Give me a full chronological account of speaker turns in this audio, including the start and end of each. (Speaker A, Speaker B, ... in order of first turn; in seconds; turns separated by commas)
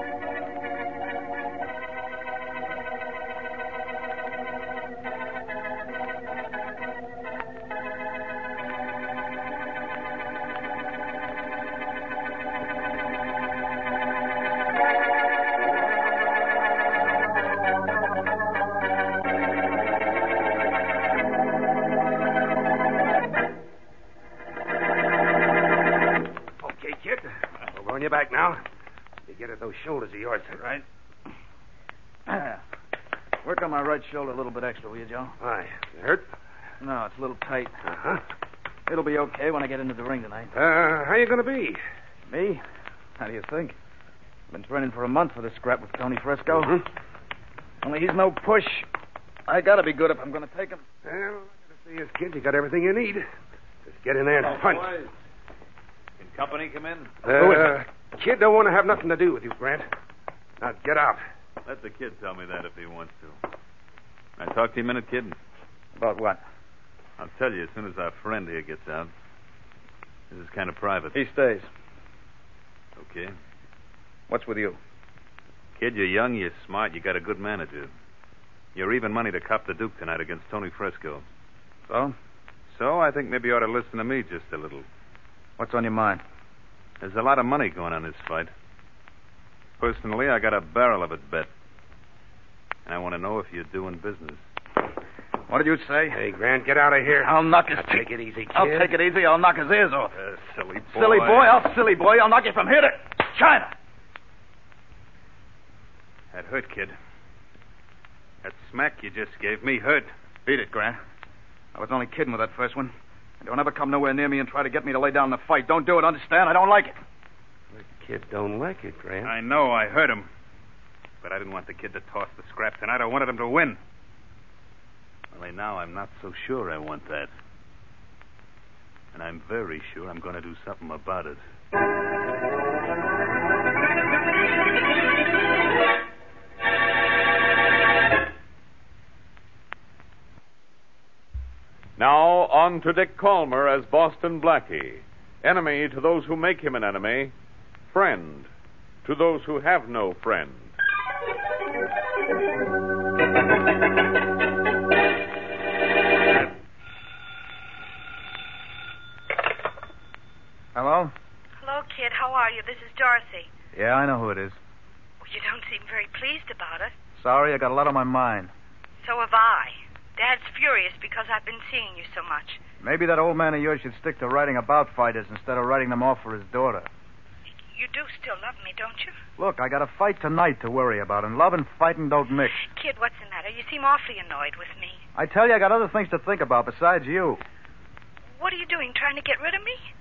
Speaker A: 26.6-28.6, Speaker A: 29.3-30.8, Speaker B: 32.3-32.6, Speaker B: 33.4-35.3, Speaker A: 35.4-36.3, Speaker B: 36.8-37.7, Speaker A: 37.8-38.2, Speaker B: 38.9-40.5, Speaker A: 40.5-41.8, Speaker B: 42.3-42.6, Speaker B: 43.2-43.8, Speaker B: 44.5-46.8, Speaker A: 46.5-46.8, Speaker B: 47.8-48.9, Speaker B: 49.5-50.8, Speaker A: 51.0-53.2, Speaker A: 53.8-55.0, Speaker C: 54.4-55.1, Speaker C: 56.2-57.1, Speaker A: 57.2-59.9, Speaker A: 60.6-61.2, Speaker C: 61.6-63.4, Speaker C: 64.4-65.4, Speaker B: 66.0-66.4, Speaker C: 67.2-69.1, Speaker C: 70.3-71.2, Speaker B: 71.1-71.7, Speaker C: 73.0-73.3, Speaker B: 74.3-74.8, Speaker C: 75.8-77.9, Speaker C: 78.7-81.2, Speaker B: 81.9-82.2, Speaker C: 82.7-84.8, Speaker B: 85.6-86.2, Speaker C: 87.0-88.5, Speaker C: 89.8-91.5, Speaker C: 92.8-94.4, Speaker B: 95.5-96.2, Speaker A: 96.1-98.9, Speaker B: 97.1-100.1, Speaker C: 100.1-101.6, Speaker B: 100.9-103.7, Speaker C: 106.3-107.0, Speaker C: 108.4-110.1, Speaker B: 110.5-111.0, Speaker B: 111.7-117.0, Speaker A: 117.7-119.3, Speaker C: 119.2-120.3, Speaker C: 121.2-123.8, Speaker C: 125.3-127.3, Speaker C: 129.1-131.4, Speaker D: 142.0-147.3, Speaker D: 147.9-148.5, Speaker D: 149.0-150.7, Speaker B: 160.7-161.1, Speaker E: 161.6-163.5, Speaker B: 163.7-164.6, Speaker E: 165.2-166.9, Speaker B: 167.2-168.5, Speaker E: 169.0-172.6, Speaker B: 172.8-176.9, Speaker E: 177.7-179.2, Speaker B: 179.4-182.7, Speaker E: 182.6-185.0, Speaker B: 185.1-187.4, Speaker E: 188.4-189.9